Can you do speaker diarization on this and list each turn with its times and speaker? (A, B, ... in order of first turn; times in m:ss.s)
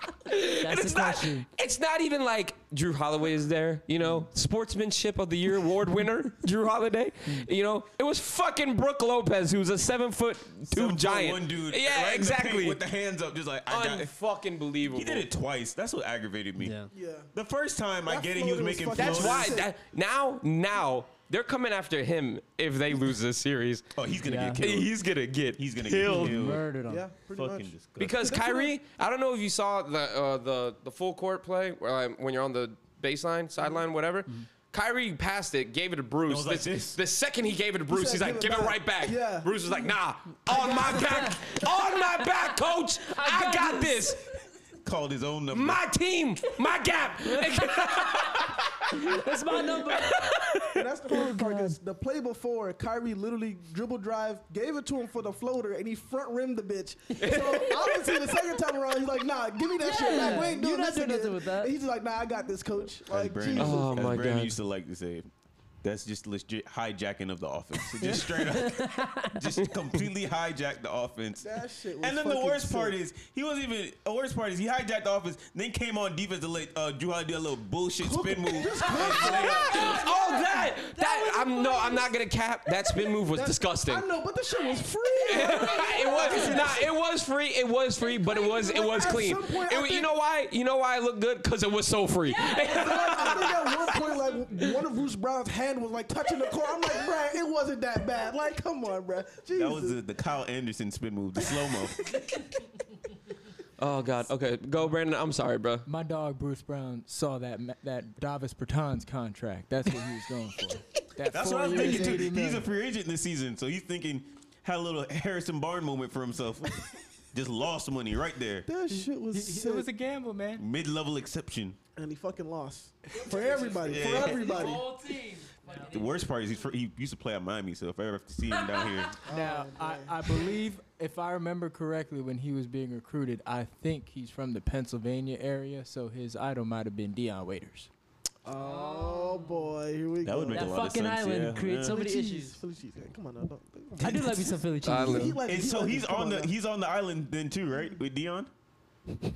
0:00.3-0:12.8 A
0:00.6-0:01.5 B
0:10.7-0:14.1 C
0:13.7-0:15.3 A
0:14.8-0:16.8 C
0:16.6-0:16.9 B
0:16.9-0:17.3 D
0:17.3-0:19.6 C
0:18.1-0:19.7 D
0:19.0-0:23.9 A
0:24.0-0:24.9 C
0:24.2-0:24.6 B
0:24.6-0:26.4 A
0:25.6-0:26.7 C
0:26.1-0:27.0 B
0:26.9-0:28.7 D
0:27.3-0:28.3 C
0:28.0-0:44.2 A
0:36.3-0:37.0 C
0:37.9-0:39.5 D
0:40.5-0:41.7 B
0:43.0-0:44.2 B
0:44.8-0:45.8 C
0:45.5-0:49.1 A
0:47.6-0:50.3 B
0:49.6-0:50.8 A
0:50.7-1:03.9 D
0:51.1-0:51.8 B
0:57.2-0:58.4 A
0:59.8-1:01.7 B
1:03.1-1:05.3 C
1:03.6-1:04.6 A
1:05.8-1:19.8 C
1:08.0-1:09.4 B
1:11.4-1:13.0 D
1:18.0-1:20.6 D
1:18.9-1:24.1 A
1:21.0-1:21.8 B
1:23.3-1:26.9 D
1:25.2-1:34.2 A
1:28.1-1:30.1 D
1:32.6-1:40.0 D
1:39.5-1:42.2 C
1:43.8-1:45.9 A
1:45.9-1:52.7 E
1:51.3-1:58.7 C
1:51.8-1:52.2 D
1:58.7-1:59.9 D
1:58.9-2:00.6 E
2:00.6-2:01.8 C
2:02.0-2:04.9 D
2:03.2-2:06.0 E
2:03.8-2:04.6 C
2:05.9-2:09.2 C
2:09.2-2:17.9 E
2:09.3-2:10.5 D
2:18.4-2:20.9 D
2:18.7-2:19.6 B
2:20.2-2:22.0 C
2:20.5-2:22.6 B
2:21.8-2:26.5 D
2:24.0-2:25.4 B
2:24.0-2:24.4 C
2:24.8-2:25.4 A
2:25.5-2:28.5 C